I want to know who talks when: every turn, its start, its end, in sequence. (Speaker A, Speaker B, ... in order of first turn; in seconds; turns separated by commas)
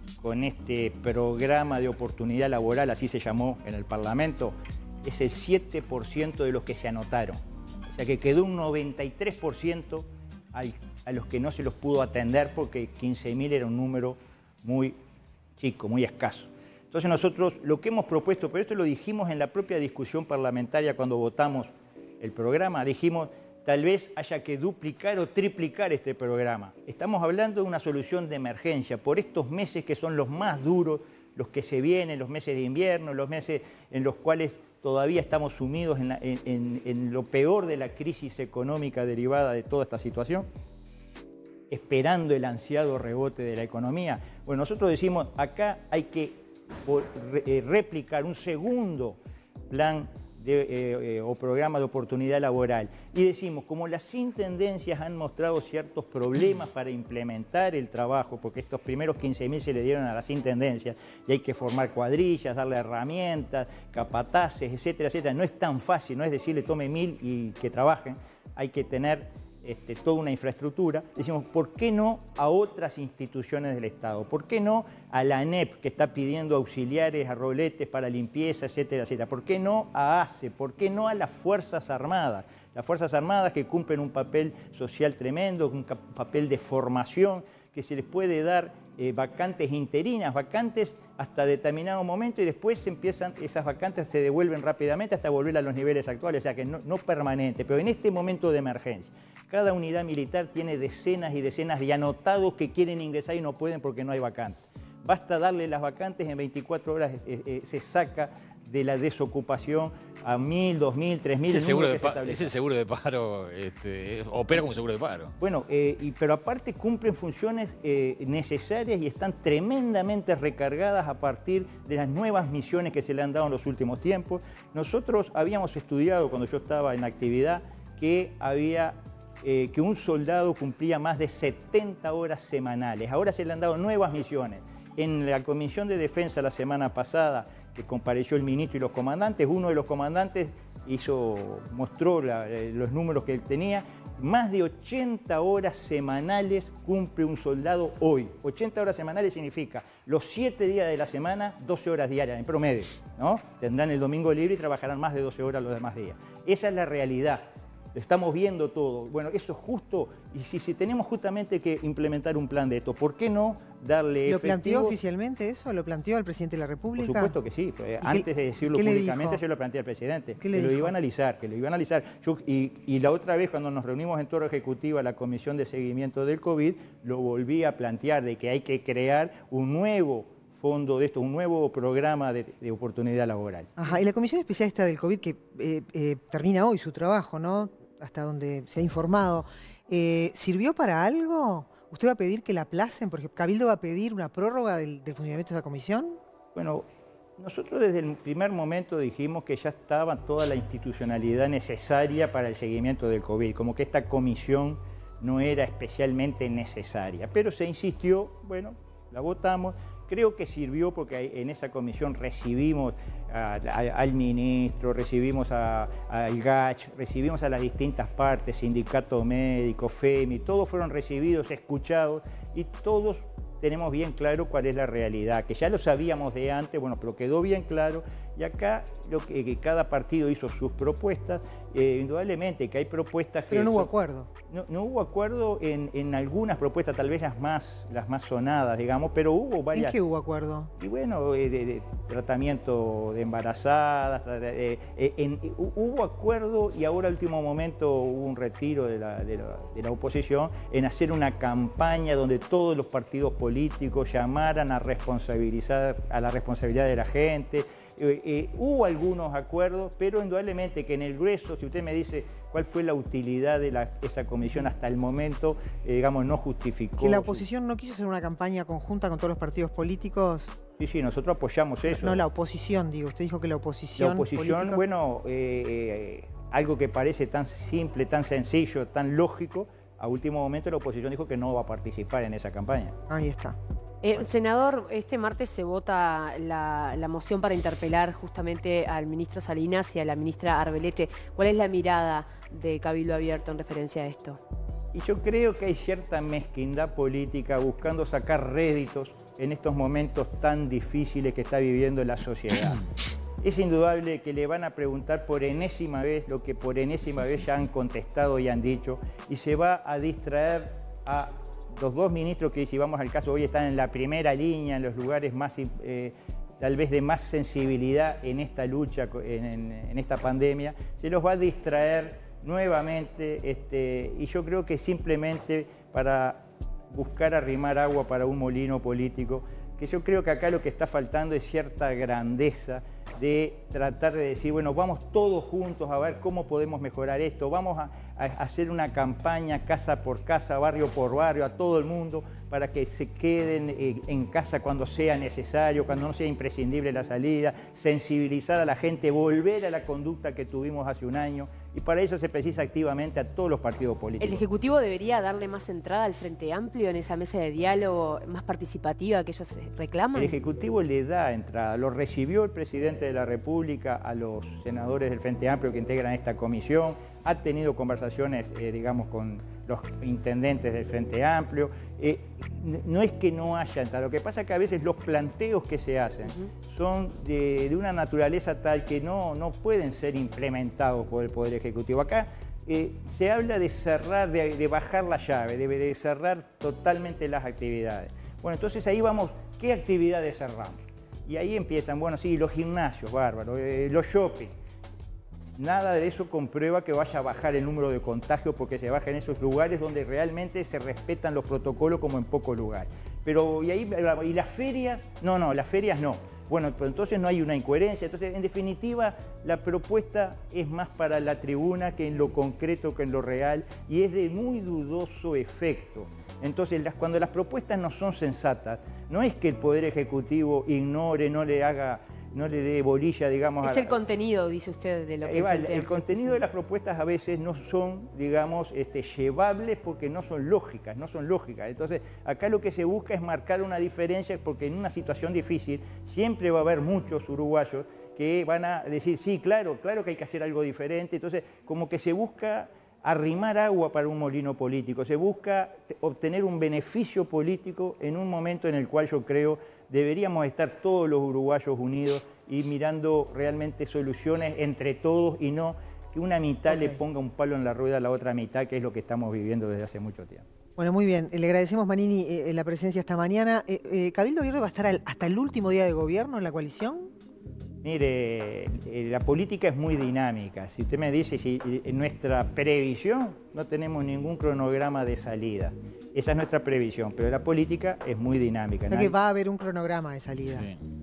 Speaker A: 0.2-15.0, Speaker A: 15.6-21.7, Speaker A: 22.2-40.5, Speaker A: 41.7-112.5, Speaker B: 111.5-115.3, Speaker A: 115.4-164.9, Speaker C: 164.2-167.3, Speaker A: 167.0-183.7, Speaker C: 168.0-169.4, Speaker C: 170.4-170.9, Speaker C: 183.8-196.2, Speaker A: 196.5-196.8, Speaker A: 197.4-233.9, Speaker C: 233.5-234.3, Speaker A: 234.5-240.0, Speaker C: 239.7-240.7, Speaker A: 240.8-267.4, Speaker C: 267.0-270.6, Speaker A: 270.8-272.3, Speaker C: 271.9-274.8, Speaker A: 274.0-282.9, Speaker C: 283.1-283.6, Speaker D: 284.0-294.4, Speaker A: 294.9-302.8, Speaker A: 303.4-354.4, Speaker D: 354.2-360.4, Speaker A: 360.1-394.5, Speaker A: 395.6-424.0, Speaker D: 423.6-426.4, Speaker A: 425.2-460.4, Speaker C: 460.8-467.1, Speaker A: 467.8-479.1, Speaker C: 478.9-480.7, Speaker B: 480.5-480.8